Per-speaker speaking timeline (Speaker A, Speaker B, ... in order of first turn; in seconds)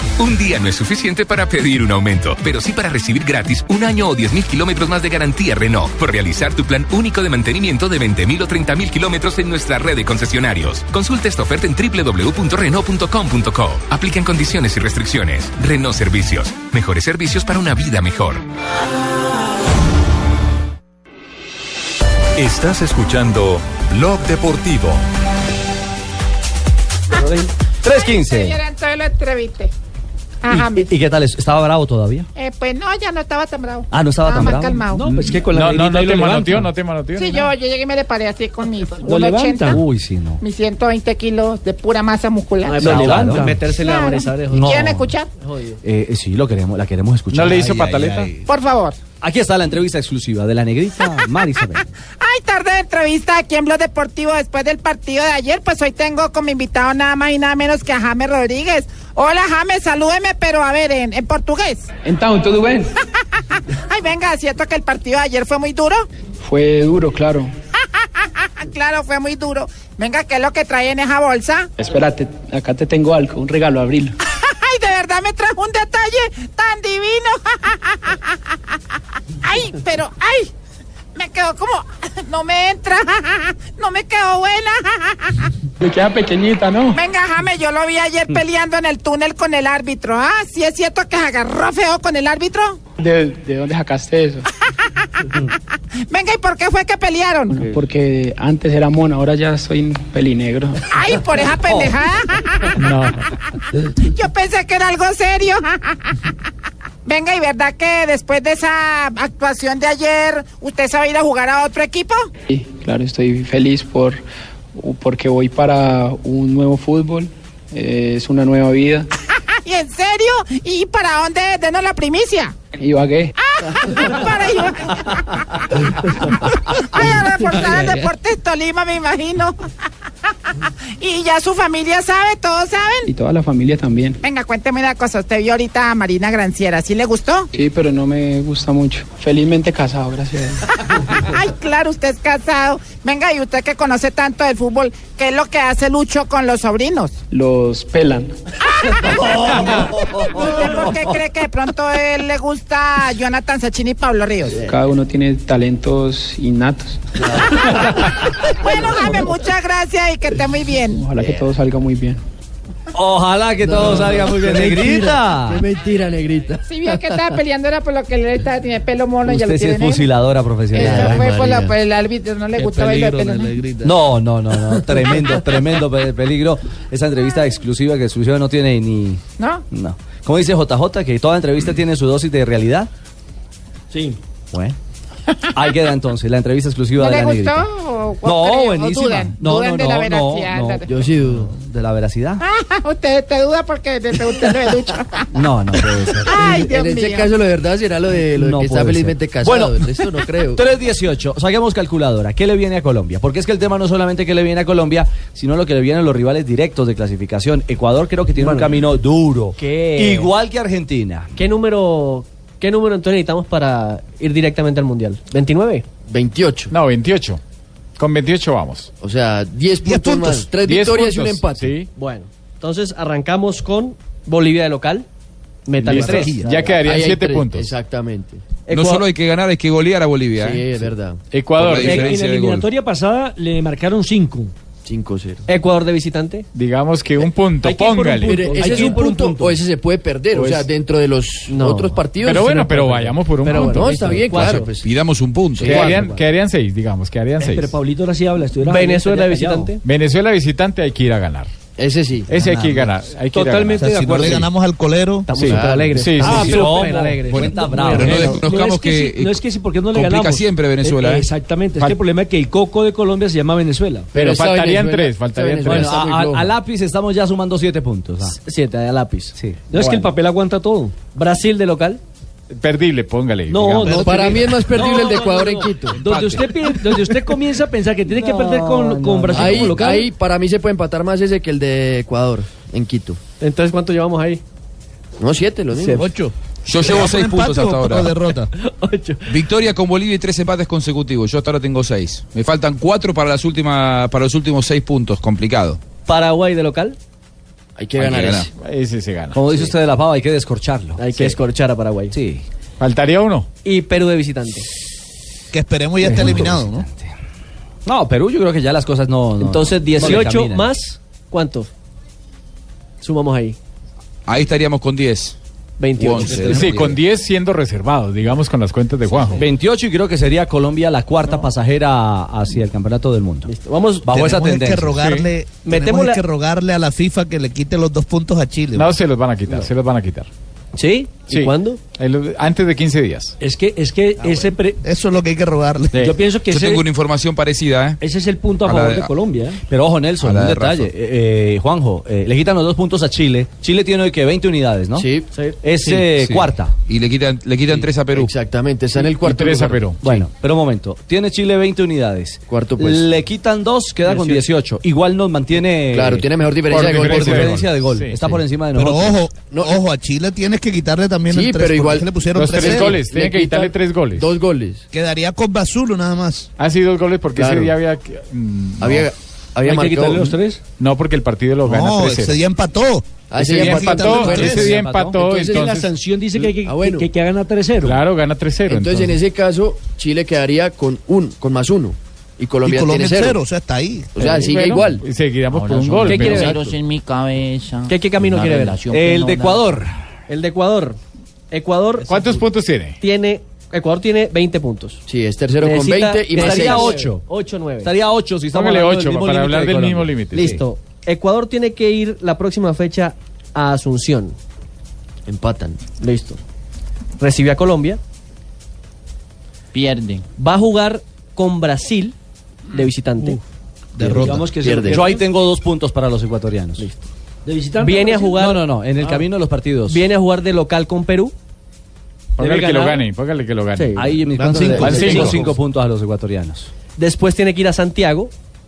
Speaker A: 0.2-18.4
Speaker B: 22.4-25.0
Speaker C: 27.8-28.6, 30.5-32.3, 33.9-34.9, 39.6-40.4, 42.8-43.6, 44.5-45.1, 45.8-48.0, 49.2-51.8, 149.2-150.9, 162.9-165.7, 169.3-171.6, 173.8-179.2, 179.7-182.9, 185.6-187.7, 188.2-192.4, 195.3-196.4, 198.3-211.3, 256.3-258.4, 265.6-268.4, 269.4-269.6, 276.1-276.4, 278.1-280.1, 299.3-301.4, 302.1-302.4, 306.0-307.1, 307.9-310.7, 319.2-323.5, 324.0-325.0, 339.7-346.8, 350.0-359.2, 374.1-375.2, 388.9-390.0, 396.3-397.2, 397.8-400.6, 414.9-416.9, 418.3-420.1, 424.0-426.7
Speaker D: 27.9-29.7, 30.4-30.9, 32.4-35.0, 37.2-39.8, 40.4-45.3, 48.4-49.0, 52.2-61.9, 63.9-66.0, 67.9-71.7, 74.3-78.8, 79.4-80.5, 81.2-85.5, 86.9-92.8, 95.2-95.5, 96.1-97.7, 100.9-103.1, 104.0-106.2, 107.1-112.3, 119.7-122.6, 123.4-129.6, 131.0-133.1, 134.2-137.5, 140.8-147.2, 148.8-154.6, 157.6-157.9, 158.5-161.1, 166.7-170.1, 170.7-173.6, 179.4-179.6, 187.0-190.9, 192.4-195.3, 195.8-197.3
Speaker E: 34.9-36.7, 39.0-39.8, 42.8-43.6, 183.9-184.2, 231.8-234.5, 237.6-239.6, 247.4-249.7, 253.7-254.4, 256.2-264.1, 269.7-271.0, 273.5-280.1, 333.4-334.8, 336.0-336.8, 338.0-339.6, 369.6-370.6, 375.5-378.0, 414.0-415.2, 417.5-419.2, 425.0-425.5
Speaker F: 35.0-37.5, 47.3-48.3, 102.8-103.1, 216.7-217.4, 218.0-218.9, 220.6-221.9, 225.8-227.7, 231.3-232.1, 236.5-238.9, 242.2-244.6, 245.6-247.7, 249.8-251.5, 252.3-254.4, 255.3-257.0, 264.1-266.0, 269.8-270.1, 272.5-274.4, 298.5-299.6, 302.8-303.5, 316.4-319.5, 325.0-325.3, 328.8-330.3, 331.3-333.4, 349.0-350.3, 356.7-358.4, 362.4-364.3, 366.6-369.1, 370.8-372.4, 373.4-375.9, 377.8-379.2, 384.2-386.6, 392.0-393.0, 398.5-400.6, 422.4-424.2, 424.7-425.5
Speaker G: 42.6-44.9, 45.4-45.8, 208.4-208.8, 209.6-210.3, 211.4-215.9, 221.9-225.1, 225.7-226.7, 228.7-229.1, 235.5-236.5, 241.5-242.0, 243.4-244.7, 248.6-249.8, 253.3-254.4, 255.3-258.2, 268.3-269.4, 271.1-272.0, 283.4-284.4, 285.7-286.0, 288.6-289.2, 296.1-297.0, 301.0-302.1, 303.6-304.7, 309.4-311.7, 313.0-313.6, 315.8-316.9, 323.5-324.1, 325.6-326.2, 330.8-331.8, 345.3-345.6, 354.1-354.5, 387.9-388.8, 390.3-391.0, 391.5-392.4, 393.0-395.0, 395.6-397.9, 400.4-404.4, 406.0-406.4, 407.2-408.0, 410.4-412.1, 412.7-413.4, 416.8-417.1, 417.8-418.6, 419.9-421.3, 422.4-422.9, 423.8-424.1, 427.0-428.3
Speaker H: 62.0-62.9, 66.4-67.5, 71.8-74.2, 85.8-87.0, 93.0-94.5, 97.5-100.8, 112.5-114.2, 114.8-119.1, 122.8-123.3, 133.1-134.2, 137.5-140.6, 147.3-148.3, 154.7-157.0, 160.9-162.2
Speaker I: 163.6-167.3, 170.8-171.3, 190.9-191.5, 196.3-200.6, 216.1-216.7, 219.0-221.8, 226.4-228.4, 230.4-231.2, 234.9-235.4, 238.2-242.8, 243.4-244.9, 245.5-246.2, 251.8-252.3, 255.4-256.1, 264.1-266.5, 274.0-276.0, 279.3-283.2, 285.2-286.1, 297.8-298.5, 345.0-345.3, 348.1-349.9, 352.5-353.1, 355.9-357.5, 359.5-359.8, 361.3-364.8, 367.4-367.7, 368.8-370.3, 373.3-375.7, 376.6-377.1, 378.7-383.4, 384.2-385.0, 386.1-386.6, 395.1-397.0, 405.3-405.9, 414.6-415.1
Speaker J: 172.6-173.9, 219.8-220.5, 225.8-226.4, 252.3-252.9, 253.8-255.3, 285.9-288.5, 305.5-306.9, 324.1-328.9, 334.2-336.0, 358.8-363.0, 364.9-366.5, 371.6-374.7, 382.6-384.2, 413.9-414.5, 424.4-425.3
Speaker K: 228.7-230.7, 231.6-232.7, 244.8-246.0, 257.9-259.4, 259.9-261.3, 286.7-288.2, 289.3-295.8, 298.0-298.5, 314.3-315.4, 316.0-316.8, 336.5-338.0, 338.6-339.1, 340.2-340.9, 346.3-348.3
Speaker L: 385.5-389.7, 409.7-410.2